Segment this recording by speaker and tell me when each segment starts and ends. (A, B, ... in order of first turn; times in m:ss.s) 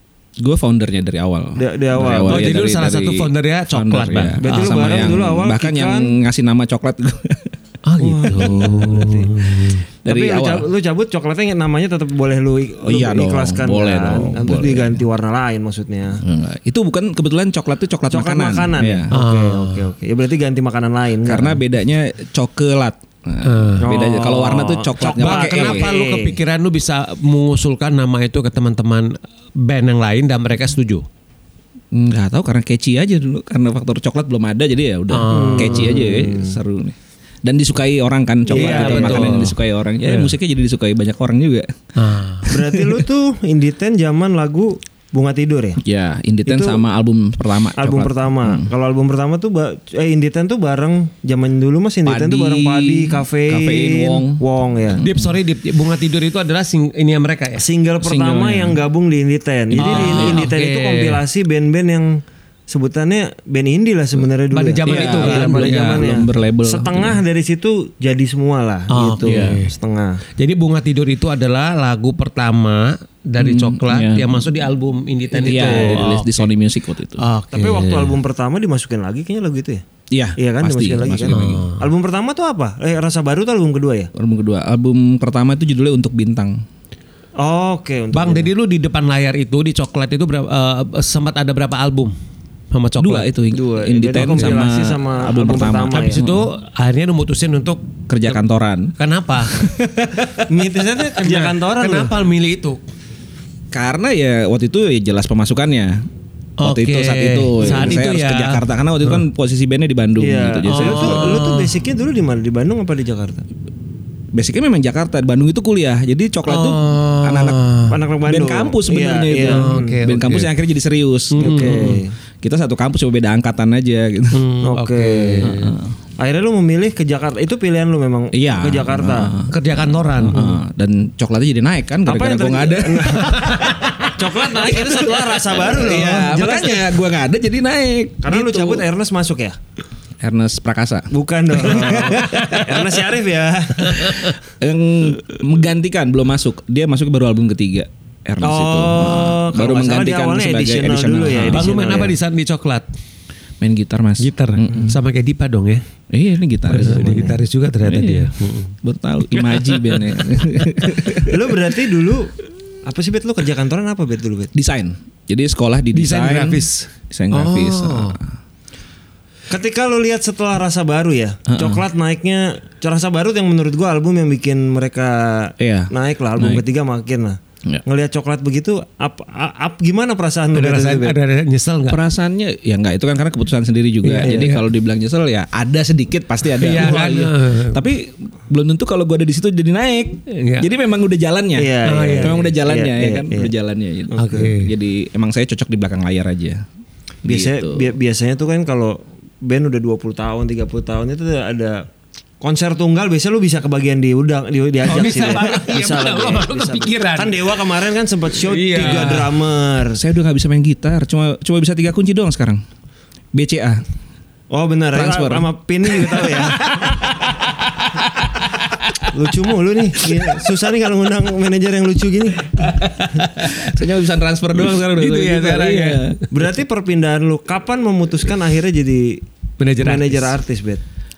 0:00.4-0:07.5 A
0:01.6-0:02.7 B
0:02.3-0:05.0 C
0:04.4-0:06.2 B
0:07.9-0:09.9 C
0:08.0-0:09.5 B
0:10.0-0:10.7 A
0:10.0-0:16.2 B
0:12.8-0:15.0 A
0:16.2-0:19.1 A
0:18.1-0:21.6 B
0:19.1-0:19.9 C
0:21.3-0:25.9 A
0:23.4-0:23.9 C
0:23.8-0:26.4 B
0:25.2-0:31.1 C
0:31.9-0:41.7 A
0:35.1-0:36.0 C
0:35.3-0:36.6 B
0:38.5-0:39.5 B
0:38.5-0:40.3 C
0:42.0-0:42.6 C
0:42.5-0:45.8 B
0:45.8-0:48.7 A
0:46.5-0:46.8 B
0:47.8-0:55.0 B
0:52.0-0:55.3 A
0:55.0-0:57.7 C
0:57.6-1:10.2 B
0:58.0-0:58.8 A
0:59.7-1:00.5 A
0:59.8-1:01.2 C
1:04.5-1:06.1 C
1:04.9-1:07.2 A
1:08.9-1:09.7 C
1:09.2-1:09.6 A
1:10.4-1:16.5 C
1:13.4-1:14.3 A
1:15.4-1:17.2 A
1:15.4-1:16.0 B
1:17.2-1:18.2 C
1:17.5-1:19.8 B
1:20.1-1:21.6 A
1:20.4-1:24.1 B
1:21.3-1:21.8 C
1:24.2-1:26.6 A
1:27.4-1:28.5 B
1:28.1-1:32.1 C
1:32.7-1:33.3 C
1:33.0-1:36.5 A
1:33.5-1:36.2 B
1:35.9-1:38.3 C
1:38.1-1:38.9 A
1:39.0-1:39.7 C
1:39.4-1:40.4 A
1:40.5-1:42.2 B
1:41.1-1:42.8 C
1:43.7-1:46.1 A
1:46.6-1:49.2 C
1:46.6-1:51.4 A
1:50.2-1:53.4 B
1:50.7-1:51.7 C
1:54.3-1:57.6 A
1:56.5-1:58.0 C
1:57.9-2:00.0 B
1:58.2-2:01.9 A
1:59.4-2:00.5 C
2:01.4-2:02.0 C
2:01.4-2:02.1 B
2:02.4-2:04.4 A
2:04.3-2:05.8 C
2:04.6-2:05.5 B
2:05.4-2:05.9 A
2:06.2-2:09.3 B
2:08.3-2:09.5 A
2:09.5-2:10.4 C
2:10.2-2:18.8 A
2:12.1-2:17.0 B
2:13.3-2:14.2 C
2:18.2-2:19.6 B
2:20.2-2:22.6 A
2:21.1-2:24.4 B
2:22.2-2:22.7 C
2:24.6-2:31.9 A
2:28.4-2:32.2 B
2:31.5-2:32.9 C
2:33.6-2:34.9 A
2:34.2-2:35.8 C
2:36.1-2:41.4 A
2:36.7-2:38.8 C
2:39.4-2:40.0 C
2:41.1-2:44.5 B
2:44.5-2:48.3 A
2:45.9-2:48.2 C
2:49.5-3:01.2 B
2:51.5-2:51.8 A
2:55.6-2:56.6 A
3:00.6-3:02.0 C
3:01.9-3:16.6 A
3:04.0-3:04.6 C
3:04.1-3:04.6 B
3:06.6-3:07.9 C
3:10.3-3:10.7 C
3:11.6-3:13.5 B
3:11.8-3:12.5 C
3:14.1-3:14.5 B
3:14.2-3:14.7 C
3:17.2-3:17.9 A
3:17.2-3:21.9 B
3:22.4-3:30.0 B
3:24.9-3:27.6 C
3:28.3-3:29.3 C
3:30.0-3:32.6 A
3:33.3-3:33.8 A
3:34.5-3:37.2 B
3:34.9-3:35.5 A
3:36.2-3:39.0 C
3:39.1-3:42.7 B
3:42.6-3:43.8 C
3:43.4-3:46.2 A
3:44.7-3:46.2 C
3:46.3-3:49.2 B
3:49.6-3:50.4 C
3:49.8-3:50.8 B